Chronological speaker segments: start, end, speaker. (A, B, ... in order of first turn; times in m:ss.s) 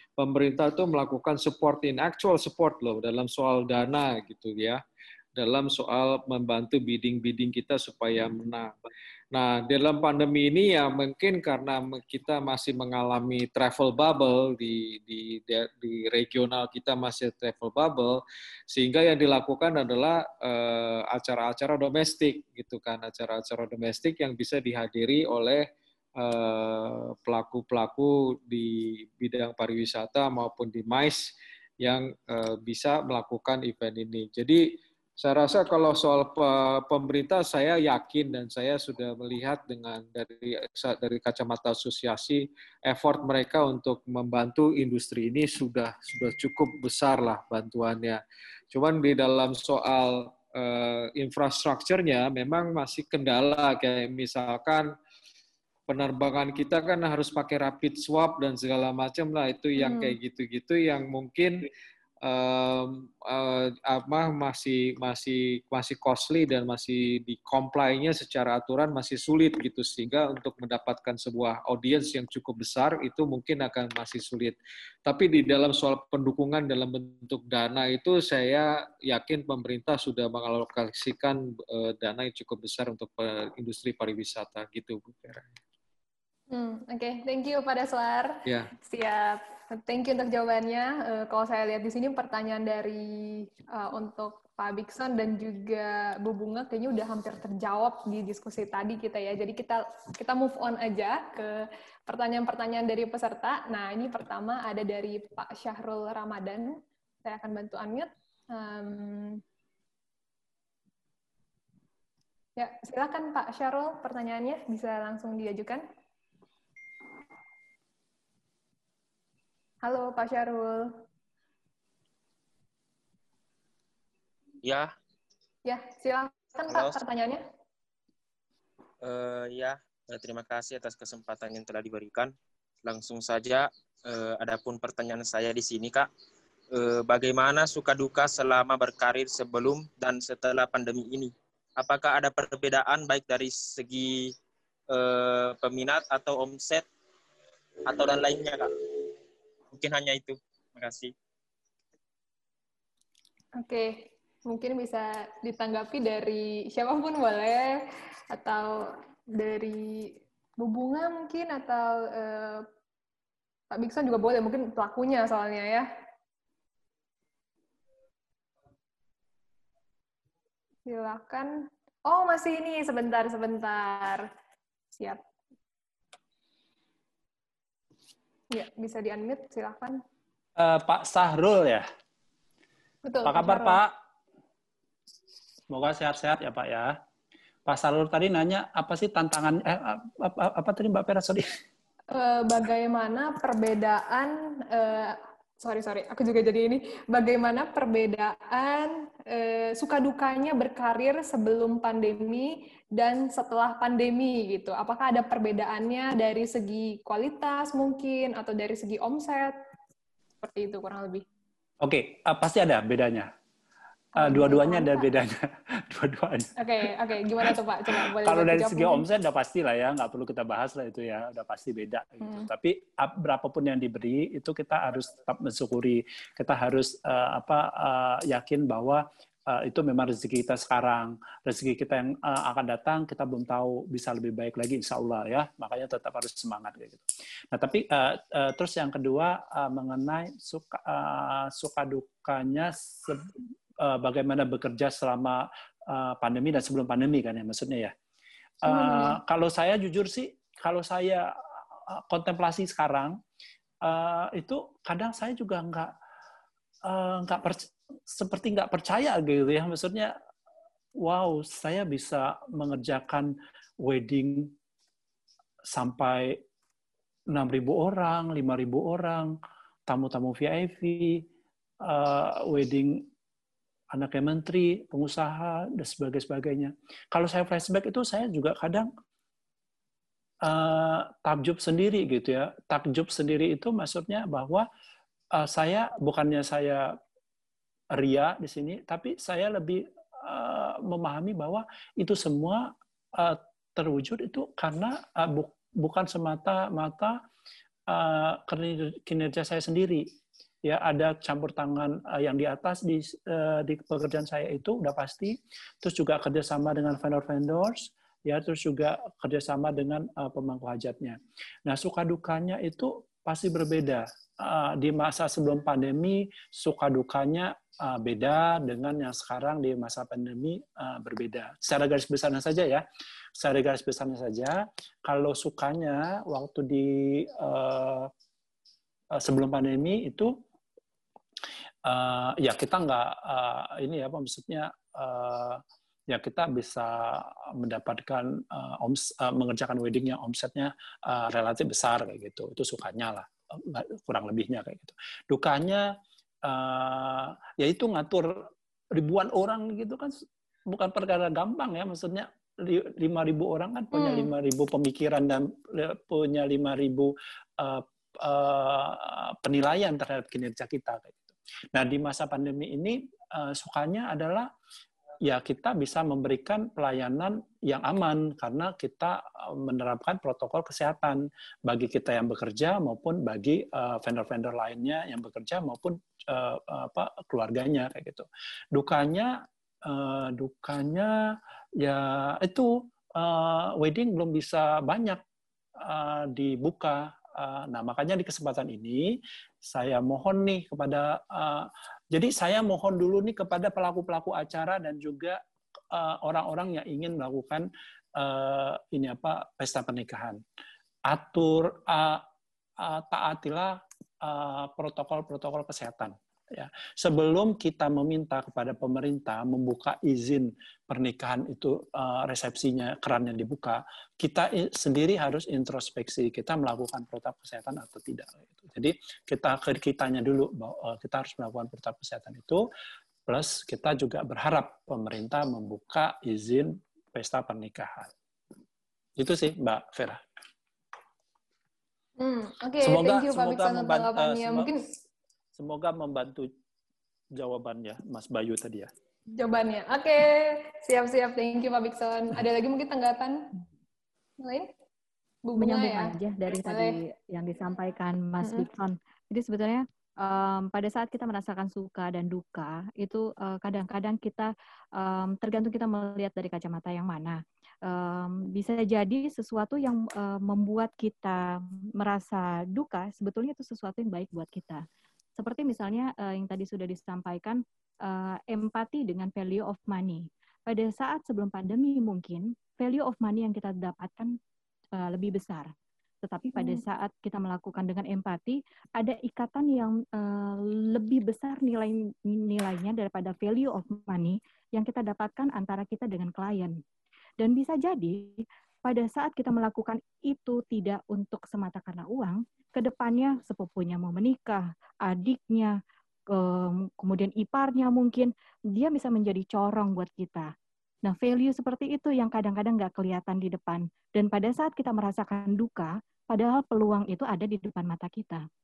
0:00.2-0:04.8 A
0:05.4-0:08.7 A
0:09.3-0:48.2 A
0:48.7-0:54.9 A
0:55.9-1:01.7 A
0:59.8-1:00.2 B
1:02.2-1:25.5 A
1:26.5-1:49.4 B
1:28.4-1:28.7 A
1:52.6-1:55.8 B
1:59.8-2:01.0 B
2:04.6-2:04.9 C
2:05.6-2:07.4 B
2:06.7-2:07.0 C
2:09.0-2:16.1 C
2:16.7-2:24.3 C
2:24.9-2:26.9 C
2:27.9-2:28.7 C
2:29.7-2:31.1 C
2:33.6-2:42.7 B
2:43.7-2:45.9 B
2:50.9-2:54.3 B
2:55.0-2:55.2 B
2:58.5-3:00.0 B
3:00.6-3:01.9 D
3:03.0-3:03.8 B
3:03.2-3:03.9 D
3:05.7-3:07.0 D
3:07.6-3:11.6 D
3:12.1-3:29.5 B
3:30.4-3:31.2 B
3:31.8-3:33.3 D
3:34.2-3:36.9 D
3:34.2-3:35.1 B
3:36.6-3:39.0 B
3:37.4-4:07.9 D
3:42.2-3:42.5 B
4:08.6-4:11.3 D
4:08.7-4:09.2 B
4:11.9-4:13.2 D
4:13.8-4:15.9 D
4:16.9-4:20.1 D
4:21.0-4:24.5 D
4:25.7-4:26.4 D
4:27.3-4:29.3 D
4:29.9-4:31.2 D
4:31.8-4:33.0 D
4:33.9-4:38.9 D
4:40.4-4:44.6 D
4:45.4-4:46.9 D
4:48.0-4:57.2 D
4:57.9-5:00.1 D
5:00.6-5:22.8 D
5:23.4-5:28.1 D
5:29.2-5:30.4 D
5:31.9-5:45.9 D
5:46.4-6:04.5 D
5:53.9-5:54.3 B
6:05.2-6:21.1 D
6:21.8-6:25.2 D
6:25.8-6:29.1 D
6:29.6-6:35.4 D
6:35.9-6:40.4 D
6:41.1-6:42.2 D
6:42.8-7:02.6 D
7:03.3-7:08.1 D
7:09.2-7:10.2 D
7:12.2-7:14.8 B
7:12.8-7:14.7 D
7:15.6-7:16.5 D
7:17.4-7:18.9 D
7:19.4-7:23.6 B
7:24.4-7:24.7 B
7:25.4-7:27.0 B
7:25.6-7:44.8 E
7:28.4-7:28.7 B
7:45.4-7:54.3 E
7:55.0-7:55.7 E
7:56.2-8:06.7 E
7:56.6-7:56.8 B
8:07.4-8:15.8 E
8:16.3-8:20.5 E
8:21.0-8:28.4 E